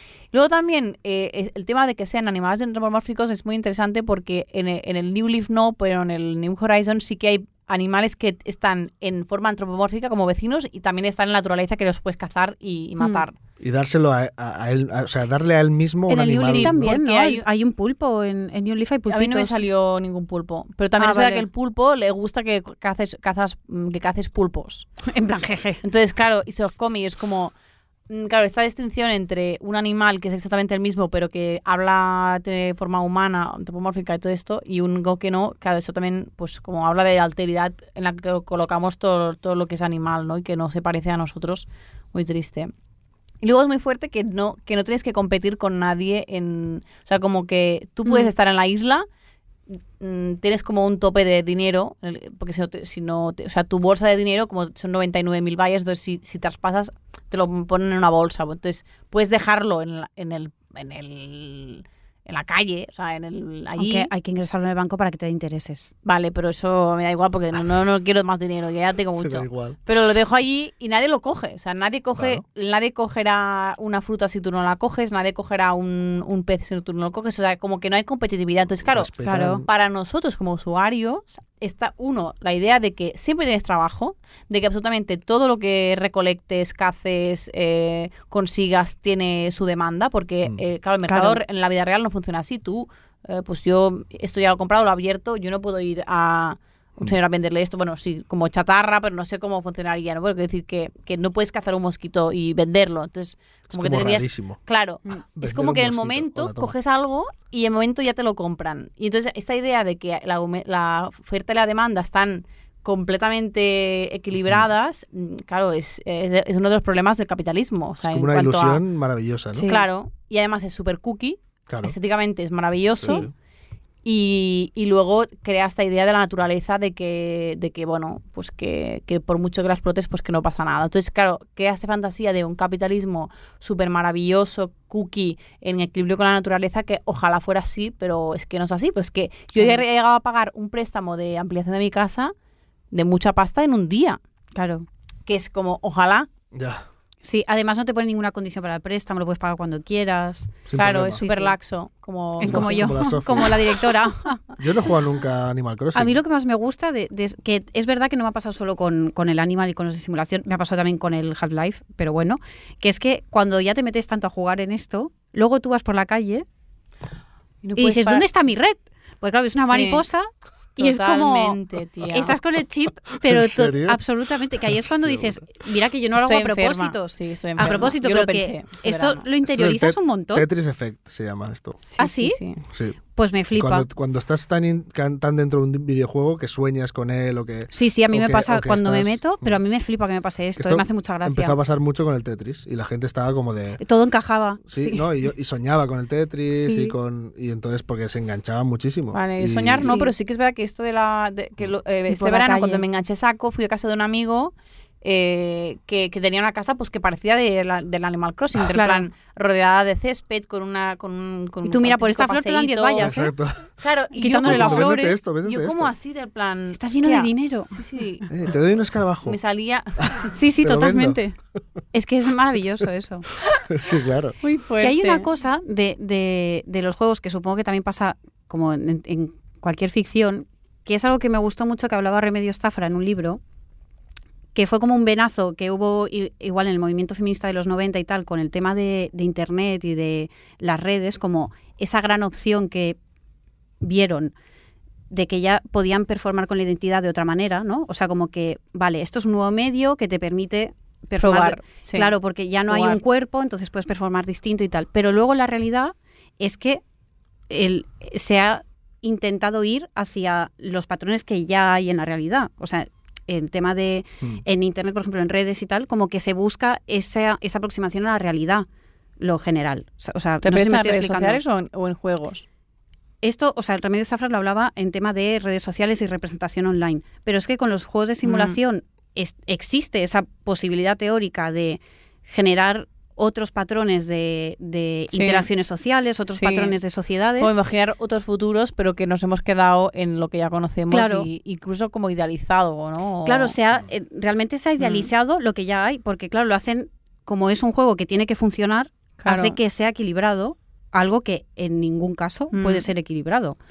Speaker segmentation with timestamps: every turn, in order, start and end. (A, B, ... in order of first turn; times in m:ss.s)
0:00.3-0:13.3 A
0:13.0-0:13.2 B
0:13.6-0:17.0 C
0:16.1-0:19.6 B
0:16.4-0:17.4 A
0:19.1-0:24.9 A
0:21.0-0:21.5 B
0:25.0-0:25.8 B
0:25.8-0:27.5 A
0:28.1-0:42.7 A
0:43.4-0:49.0 A
0:48.0-0:48.3 B
0:50.0-1:04.1 A
1:03.8-1:05.9 B
1:06.0-1:58.8 A
1:09.2-1:09.8 C
1:12.2-1:12.4 C
1:18.8-1:19.7 C
1:19.2-1:19.6 B
1:31.1-1:31.4 B
1:43.7-1:44.6 C
1:45.3-1:46.7 C
1:58.0-1:59.7 C
1:59.5-1:59.8 B
1:59.6-2:03.3 A
2:01.7-2:01.9 C
2:03.0-2:03.3 C
2:04.0-2:22.3 A
2:19.6-2:19.8 B
2:22.9-2:24.2 A
2:24.5-2:24.8 B
2:25.2-2:26.3 A
2:26.5-2:26.8 C
2:27.2-2:30.6 B
2:30.6-2:31.2 C
2:30.8-2:32.9 A
2:31.1-2:31.5 B
2:32.4-2:34.4 B
2:32.4-2:33.8 C
2:34.6-2:36.2 C
2:35.9-2:46.4 B
2:47.6-2:48.2 A
2:47.8-2:51.6 B
2:49.7-2:50.0 A
2:50.8-2:52.4 A
2:52.1-3:00.4 B
2:53.2-2:55.4 C
2:56.1-2:59.2 A
2:59.5-3:01.8 C
3:01.8-3:02.6 A
3:02.0-3:02.4 B
3:03.2-3:03.9 B
3:03.6-3:09.6 C
3:07.7-3:11.6 B
3:10.6-3:13.8 C
3:13.8-3:15.1 B
3:14.7-3:19.9 C
3:16.5-3:16.9 B
3:19.1-3:33.2 A
3:19.8-3:20.1 B
3:22.1-3:22.8 B
3:28.7-3:29.1 B
3:31.6-3:33.3 B
3:33.0-3:33.7 C
3:33.8-3:38.3 A
3:34.2-3:35.2 B
3:34.4-3:35.9 C
3:36.7-3:37.7 B
3:38.3-3:39.4 C
3:39.2-3:40.3 A
3:40.0-3:41.2 C
3:40.3-3:41.4 B
3:41.9-3:43.3 B
3:43.7-3:44.4 C
3:44.4-3:45.2 A
3:44.8-3:53.4 B
3:54.5-4:03.0 B
4:03.8-4:04.3 B
4:05.1-4:16.8 B
4:11.2-4:12.1 A
4:12.7-4:13.0 A
4:17.5-4:28.6 B
4:29.2-4:31.4 B
4:30.4-4:32.4 A
4:33.2-4:47.6 B
4:38.2-4:38.6 A
4:45.1-4:45.5 A
4:46.3-4:46.8 A
4:47.4-4:53.5 A
4:50.9-4:51.3 B
4:53.2-5:03.6 B
4:54.8-4:55.1 A
4:59.2-4:59.6 A
5:02.5-5:02.9 A